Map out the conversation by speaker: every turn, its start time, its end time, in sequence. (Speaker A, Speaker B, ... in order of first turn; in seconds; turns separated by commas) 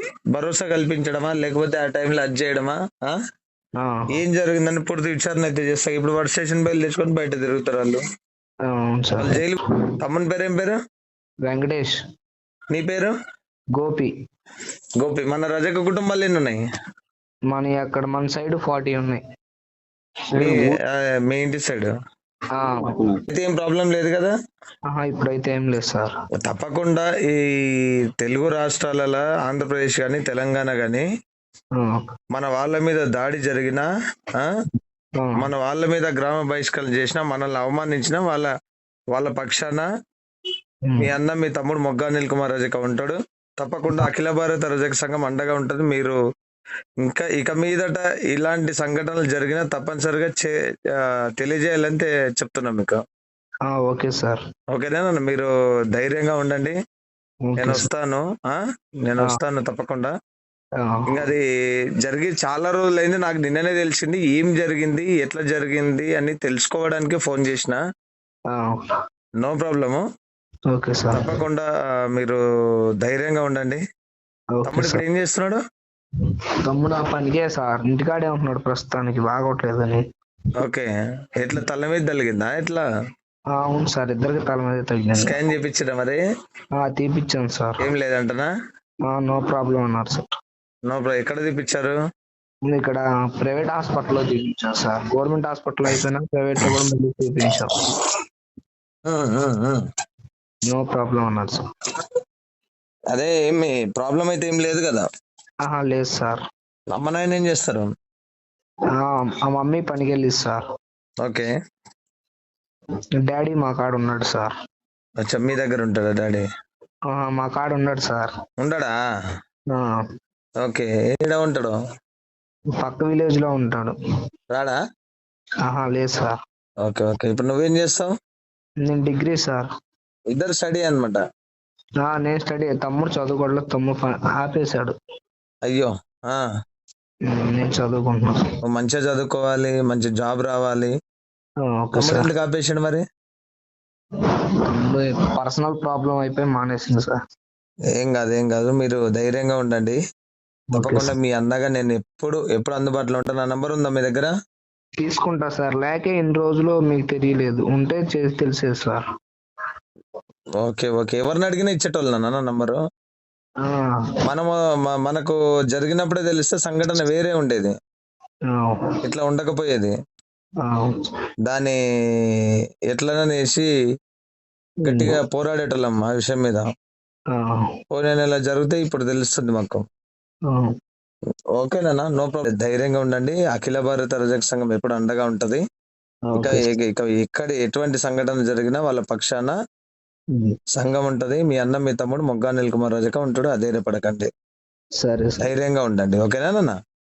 Speaker A: 0.3-3.1, Speaker B: 3.8-4.1, Speaker A: 4.1-8.0, Speaker B: 8.7-9.4, Speaker A: 9.2-10.8, Speaker B: 11.4-12.0, Speaker A: 12.7-13.1, Speaker B: 13.8-14.1, Speaker A: 15.0-16.6, Speaker B: 17.5-19.2, Speaker B: 20.3-20.8, Speaker A: 20.4-20.6, Speaker A: 21.3-21.9, Speaker B: 22.6-23.2, Speaker A: 23.3-24.3, Speaker B: 24.9-26.1, Speaker A: 26.4-27.4, Speaker A: 28.2-31.1, Speaker B: 31.8-32.1, Speaker A: 32.3-34.5, Speaker B: 35.2-35.4, Speaker A: 35.4-38.5, Speaker A: 39.1-39.9, Speaker A: 41.0-46.2, Speaker A: 47.0-53.0, Speaker B: 53.7-54.4, Speaker A: 54.7-56.8, Speaker B: 57.5-57.9, Speaker A: 57.6-60.1, Speaker B: 60.8-61.2, Speaker A: 61.1-61.4, Speaker A: 62.0-67.8, Speaker B: 68.5-68.9, Speaker A: 69.4-70.0, Speaker B: 70.7-71.3, Speaker A: 71.1-72.4, Speaker A: 73.0-73.8, Speaker B: 74.6-75.0, Speaker A: 74.7-75.6, Speaker B: 76.7-80.0, Speaker A: 80.6-82.8, Speaker B: 83.5-85.3, Speaker A: 85.2-86.2, Speaker B: 86.8-87.8, Speaker A: 87.8-88.5, Speaker B: 89.1-90.3, Speaker A: 90.9-92.0, Speaker B: 92.7-97.8, Speaker A: 99.1-99.8, Speaker B: 100.7-101.6, Speaker A: 103.1-105.0, Speaker B: 105.7-106.4, Speaker A: 106.9-107.9, Speaker B: 109.0-110.6, Speaker A: 111.2-111.5, Speaker B: 113.2-114.5, Speaker A: 115.2-116.4, Speaker B: 117.1-118.3, Speaker A: 118.6-118.9, Speaker B: 119.7-120.0, Speaker A: 120.6-121.7, Speaker B: 122.8-123.9, Speaker A: 124.5-124.8, Speaker B: 125.7-126.3, Speaker A: 126.8-128.1, Speaker B: 128.8-129.7, Speaker A: 130.3-131.2, Speaker B: 132.0-134.9, Speaker A: 135.7-136.4, Speaker B: 137.3-138.3, Speaker A: 138.6-140.9, Speaker B: 141.6-142.3, Speaker A: 142.0-143.0, Speaker B: 144.2-147.1, Speaker A: 148.0-150.0, Speaker B: 150.7-151.1, Speaker A: 150.8-154.3, Speaker B: 155.0-159.0, Speaker A: 160.6-162.8, Speaker B: 163.6-164.0, Speaker A: 164.3-167.7, Speaker B: 168.5-168.9, Speaker A: 169.0-169.9, Speaker B: 170.6-171.0, Speaker A: 171.5-172.4, Speaker A: 172.9-173.7, Speaker B: 174.8-175.1, Speaker A: 174.8-176.6, Speaker B: 177.3-177.7, Speaker A: 177.9-179.8, Speaker A: 181.6-185.6, Speaker B: 186.3-186.7, Speaker A: 186.4-189.6, Speaker A: 190.8-194.3, Speaker B: 195.0-195.4, Speaker A: 195.4-196.8